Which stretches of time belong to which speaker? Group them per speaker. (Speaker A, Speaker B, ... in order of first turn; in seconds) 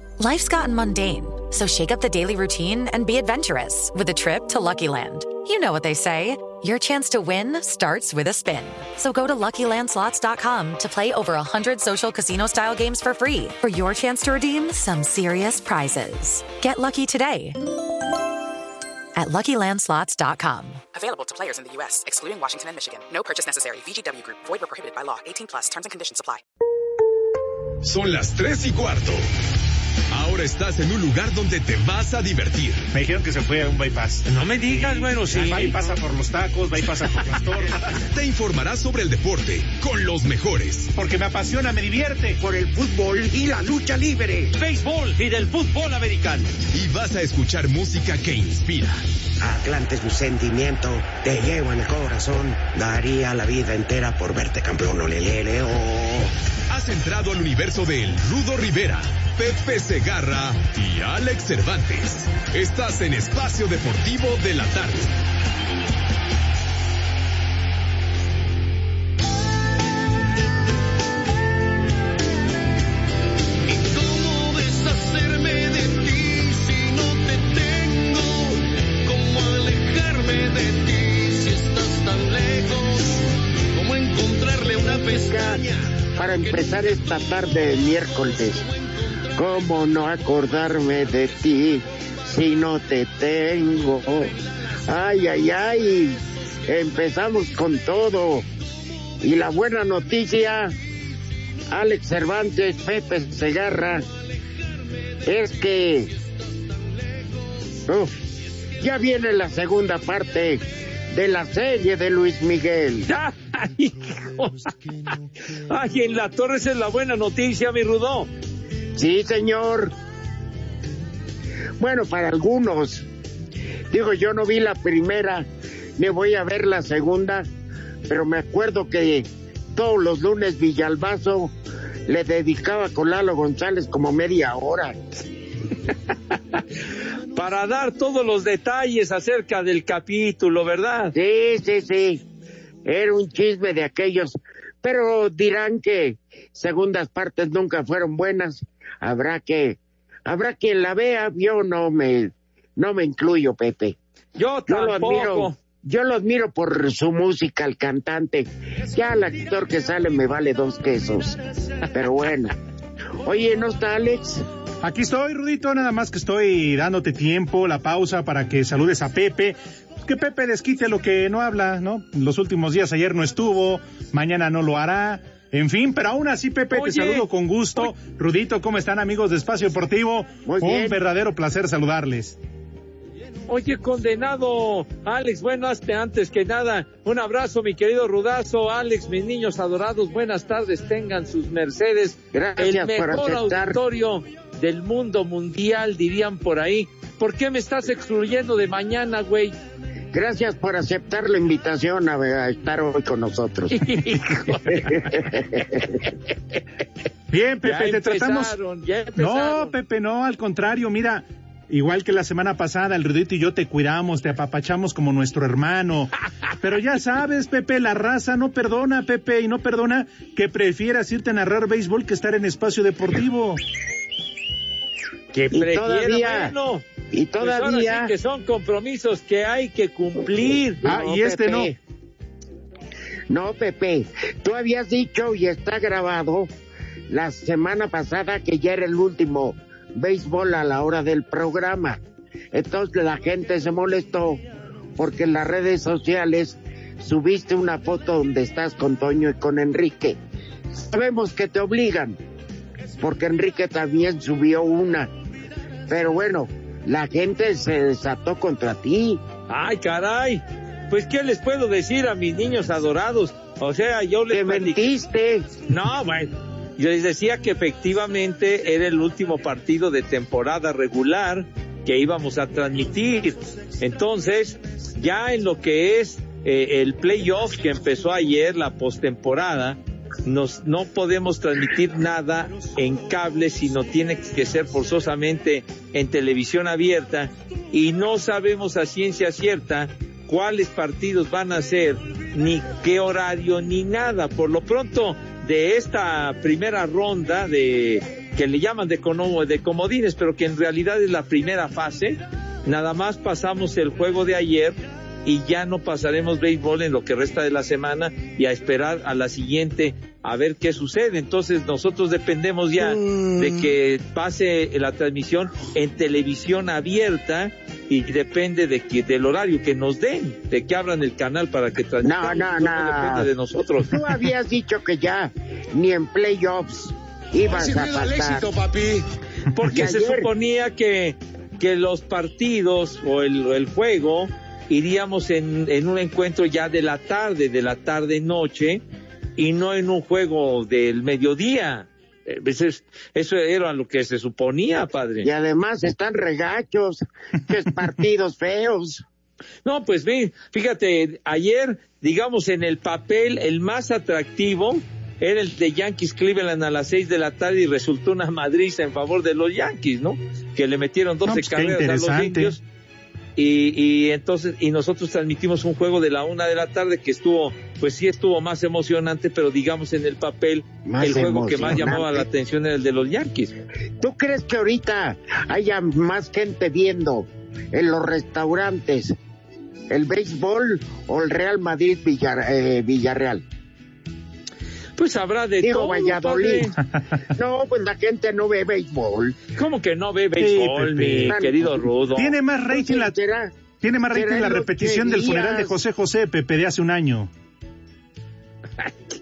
Speaker A: 0.2-17.6, 19.1-20.9
Speaker B: 20.9-26.4
Speaker C: 27.8-29.2, 30.1-32.9, 38.0-40.9, 46.7-49.0, 56.7-65.2
Speaker D: 32.9-37.8, 40.9-42.4, 164.8-182.4, 207.3-208.5, 209.2-223.6, 230.8-231.7, 361.2-362.6, 390.4-391.4, 392.1-393.1, 393.8-397.3
Speaker E: 34.2-35.8, 44.5-46.5, 113.1-114.7, 115.7-118.3, 137.3-141.1, 154.3-155.6, 176.7-177.9, 183.5-199.5, 203.7-205.2, 207.6-209.7, 225.3-226.8, 227.4-231.0, 259.5-264.8, 265.7-323.9, 329.5-338.8, 339.4-345.3, 349.6-362.6, 363.4-373.5, 385.0-386.7, 389.6-392.3
Speaker F: 42.4-44.5, 49.4-56.3, 85.0-85.6, 86.2-88.6, 89.3-94.3, 94.8-98.5, 99.2-100.7, 101.7-104.0, 105.2-106.1, 107.8-108.1, 108.8-113.1, 118.9-119.9, 121.8-123.0, 123.9-127.5, 128.1-131.5, 132.1-135.0, 141.1-142.2, 142.8-154.0, 154.7-162.6, 163.2-164.4, 180.4-181.0, 192.3-193.8, 200.1-203.8, 204.7-206.0, 225.5-226.5, 227.1-228.1, 230.8-231.8, 233.3-236.5, 237.1-242.0, 242.5-244.4, 245.0-250.2, 250.7-252.2, 253.0-255.1, 255.9-259.2, 264.3-265.5, 312.8-313.5, 322.0-323.3, 323.9-328.4, 329.6-330.3, 345.2-349.0, 370.8-372.2, 374.0-379.1, 379.9-383.4, 385.6-386.7, 387.3-389.4, 391.2-391.8, 392.7-393.6, 394.1-395.8
Speaker G: 73.7-85.8, 86.4-87.2, 88.2-88.9, 327.4-329.0